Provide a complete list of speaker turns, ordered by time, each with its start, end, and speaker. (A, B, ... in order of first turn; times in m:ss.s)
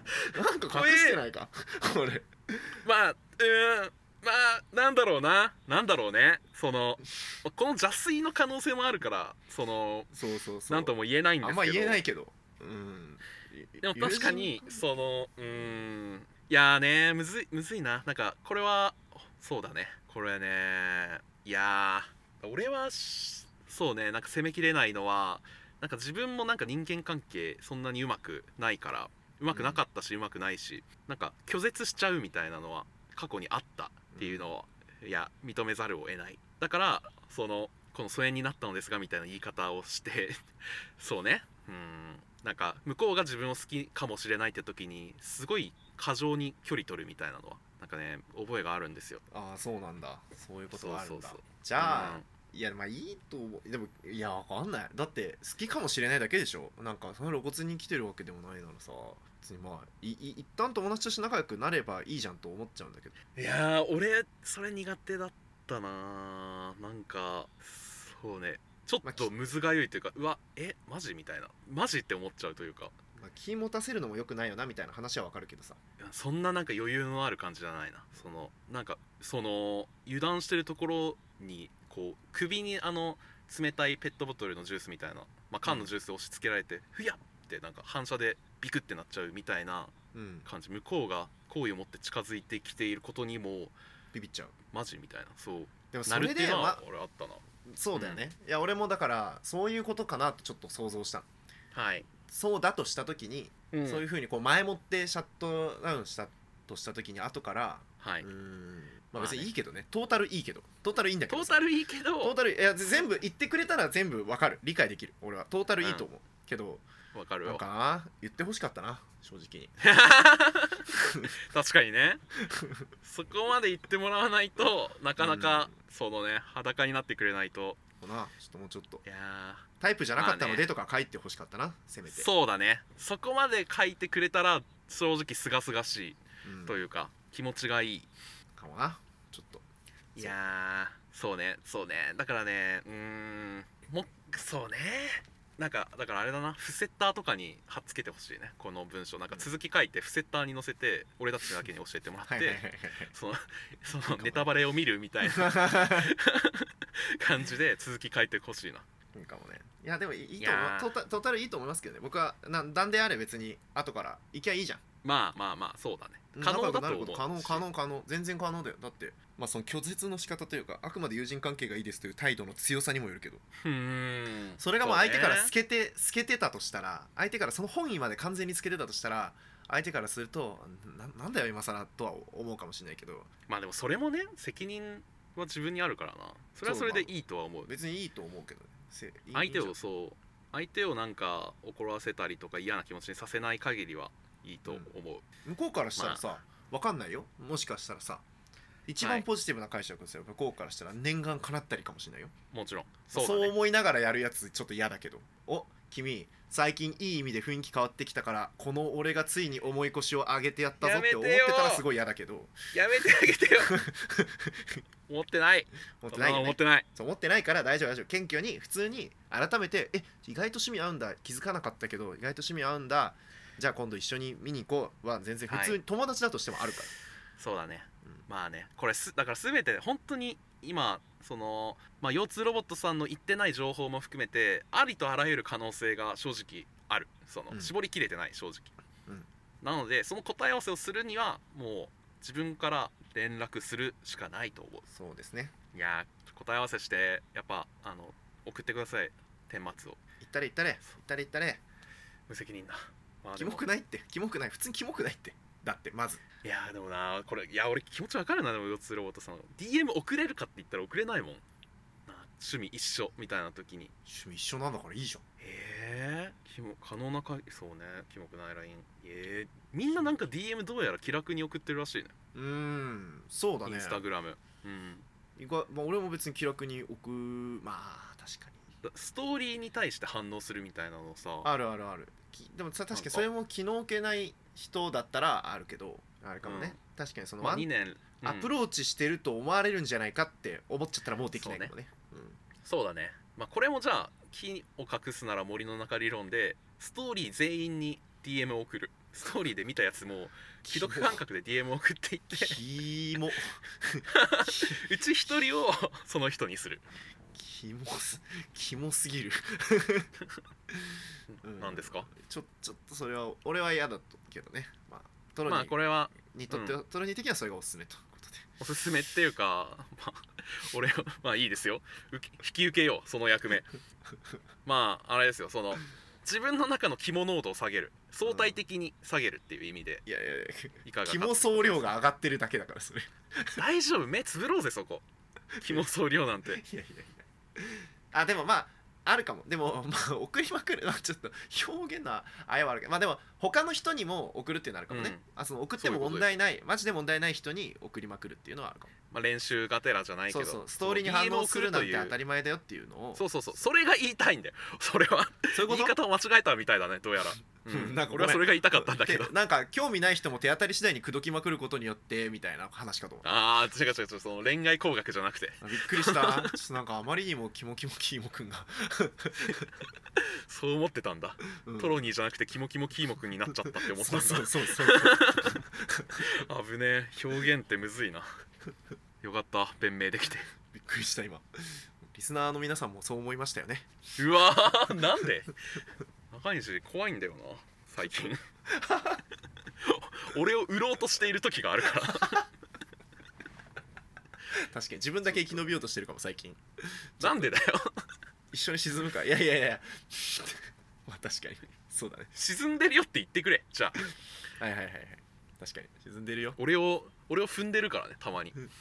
0:00.3-0:02.8 A
0:00.7-0:01.2 B
0:02.8-0:10.1 B
0:10.1-0:14.7 A
0:10.7-0:12.0 B
0:13.8-0:40.4 B
0:29.5-0:29.8 A
0:34.1-0:34.5 A
0:41.0-0:49.2 B
0:49.3-1:03.2 A
0:50.7-0:52.3 B
1:03.4-1:12.9 B
1:09.0-1:09.3 A
1:13.2-1:15.8 A
1:16.0-1:33.7 B
1:25.6-1:25.9 A
1:30.1-1:30.5 A
1:34.1-1:34.5 A
1:34.7-1:37.4 B
1:35.9-1:36.8 A
1:37.6-1:41.3 A
1:37.9-1:38.2 B
1:41.7-1:42.1 B
1:42.3-1:51.6 A
1:43.7-1:44.0 B
1:48.0-1:48.3 B
1:49.2-1:49.5 B
1:51.3-1:52.4 B
1:52.2-1:56.8 A
1:55.8-1:56.1 B
1:57.1-1:57.6 B
1:57.4-1:59.7 A
1:59.8-2:02.2 B
2:01.0-2:01.3 A
2:02.4-2:02.8 A
2:03.0-2:07.8 B
2:05.2-2:05.7 A
2:08.0-2:09.0 A
2:09.0-2:10.7 B
2:09.8-2:12.3 A
2:12.1-2:18.1 B
2:16.4-2:16.8 A
2:18.6-2:19.6 A
2:20.1-2:38.8 B
2:32.2-2:33.1 A
2:34.1-2:34.5 A
2:35.3-2:36.1 A
2:39.1-2:44.8 A
2:40.4-2:40.9 B
2:45.0-2:47.6 B
2:46.3-2:53.4 A
2:53.6-2:55.5 B
2:54.6-3:03.3 A
3:03.5-3:07.7 B
3:06.6-3:07.1 A
3:07.7-3:09.7 A
3:09.3-3:15.2 B
3:15.4-3:18.2 A
3:16.0-3:16.2 B
3:18.9-3:22.3 A
3:19.0-3:19.2 B
3:22.5-3:23.5 B
3:23.1-3:32.5 A
3:30.8-3:31.8 B
3:32.7-3:33.8 B
3:33.6-3:34.8 A
3:35.1-3:36.8 B
3:36.0-3:46.9 A
3:45.5-3:45.8 B
3:47.4-3:58.7 B
3:59.6-4:04.8 B
4:04.9-4:05.5 A
4:05.7-4:10.0 B
4:10.2-4:11.6 A
4:12.3-4:13.7 B
4:13.4-4:16.2 A
4:16.4-4:21.4 B
4:22.1-4:23.9 B
4:24.0-4:25.2 A
4:25.4-4:32.1 B
4:32.3-4:34.0 A
4:33.6-4:35.1 B
4:35.4-4:38.6 A
4:38.8-4:41.5 B
4:41.4-4:47.7 A
4:42.9-4:43.2 B
4:46.4-4:46.8 B
4:47.4-4:48.5 B
4:48.2-4:52.4 A
4:51.3-4:51.7 B
4:52.6-5:02.6 B
5:00.6-5:01.2 A
5:02.3-5:04.8 A
5:04.1-5:06.8 B
5:07.3-5:10.1 A
5:10.7-5:18.5 A
5:11.3-5:12.1 B
5:15.4-5:16.8 B
5:18.6-5:23.7 B
5:24.6-5:30.0 B
5:28.2-5:28.6 A
5:30.0-5:33.6 A
5:30.8-5:32.0 B
5:33.5-5:35.0 B
5:35.6-5:35.8 A
5:35.6-5:36.6 B
5:36.5-5:48.9 A
5:44.9-5:45.2 B
5:45.8-5:46.4 B
5:49.1-5:52.1 B
5:50.3-5:53.2 A
5:53.2-5:59.3 B
5:55.5-5:56.0 A
5:57.7-6:03.2 A
6:03.2-6:06.6 B
6:05.6-6:09.7 A
6:10.2-6:15.6 B
6:11.6-6:12.0 A
6:13.7-6:16.3 A
6:16.2-6:18.3 B
6:19.2-6:20.5 B
6:20.7-6:23.9 A
6:24.2-6:25.6 B
6:26.3-6:28.4 B
6:28.7-6:29.2 A
6:29.8-6:32.5 B
6:34.5-6:37.5 A
6:37.2-6:38.0 B
6:38.5-6:42.3 A
6:42.3-6:44.1 B
6:44.6-6:46.6 A
6:46.6-6:48.6 B